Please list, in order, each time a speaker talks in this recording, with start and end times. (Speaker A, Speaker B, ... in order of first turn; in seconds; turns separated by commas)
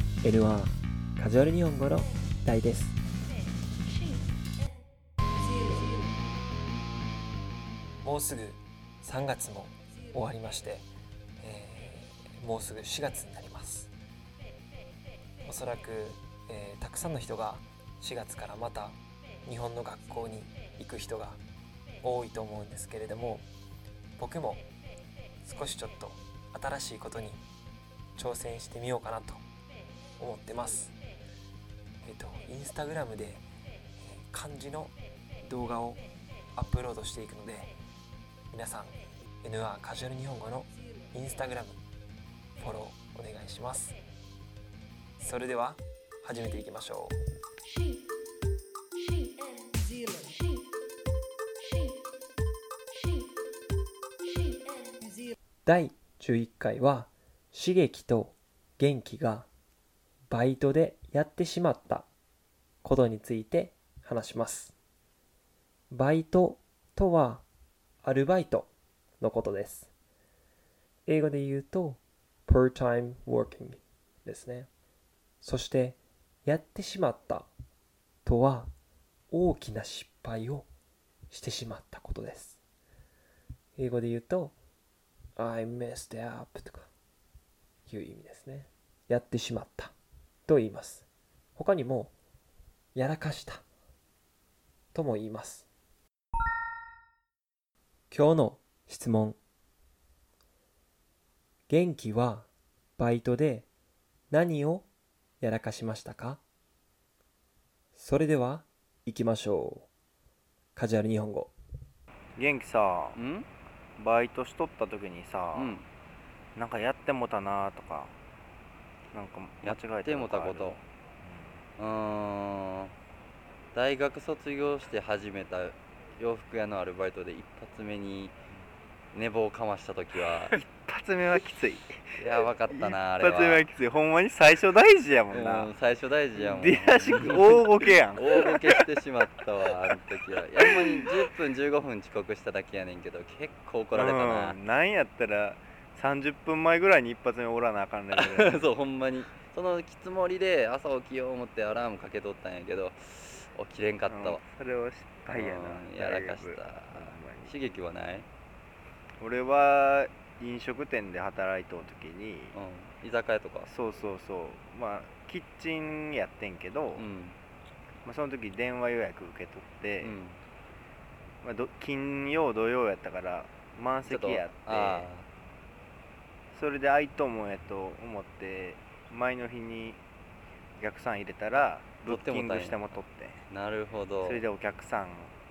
Speaker A: 0.2-3.0, Speaker A: 8.0-10.9, Speaker A: 11.4-13.9, Speaker A: 15.4-21.4, Speaker A: 22.0-23.4, Speaker A: 24.2-24.6, Speaker A: 25.4-27.4, Speaker A: 28.1-29.4, Speaker A: 30.2-30.9, Speaker A: 32.0-33.4, Speaker A: 34.0-36.0, Speaker A: 36.5-37.7, Speaker A: 38.5-41.8, Speaker A: 42.6-44.0, Speaker A: 45.2-47.2, Speaker A: 55.6-59.5, Speaker A: 60.3-62.1, Speaker A: 62.8-64.7, Speaker A: 65.9-67.4, Speaker A: 68.0-69.9, Speaker A: 71.1-74.7, Speaker A: 75.4-77.5, Speaker A: 78.2-78.7, Speaker A: 79.3-80.7, Speaker A: 81.3-82.6, Speaker A: 83.8-84.5, Speaker A: 85.4-86.9, Speaker A: 87.8-89.9, Speaker A: 90.5-92.1, Speaker A: 92.9-93.6, Speaker A: 94.9-95.7, Speaker A: 98.1-99.4, Speaker A: 101.7-103.7, Speaker A: 104.3-104.9, Speaker A: 105.4-106.4, Speaker A: 107.9-109.9, Speaker A: 110.7-111.5, Speaker B: 112.3-113.2, Speaker C: 113.2-113.5, Speaker B: 114.0-115.8, Speaker C: 115.5-115.9, Speaker B: 116.5-118.1, Speaker B: 119.1-121.6, Speaker C: 119.6-120.8, Speaker C: 121.8-122.9, Speaker C: 123.7-128.3, Speaker C: 129.1-130.5, Speaker B: 130.5-135.7, Speaker C: 132.2-133.7, Speaker C: 135.3-144.6, Speaker B: 136.3-138.8, Speaker B: 140.6-141.1, Speaker B: 143.9-148.7, Speaker C: 148.1-154.4, Speaker B: 154.1-157.5, Speaker C: 155.3-158.3, Speaker B: 159.2-162.6, Speaker C: 162.5-163.7, Speaker B: 163.6-167.0, Speaker C: 166.9-167.4, Speaker B: 168.0-170.2, Speaker C: 170.0-170.4, Speaker B: 171.4-175.1, Speaker C: 174.1-175.3, Speaker B: 176.5-180.0, Speaker B: 180.8-183.4, Speaker C: 182.0-182.9, Speaker C: 183.5-184.4, Speaker B: 184.2-185.3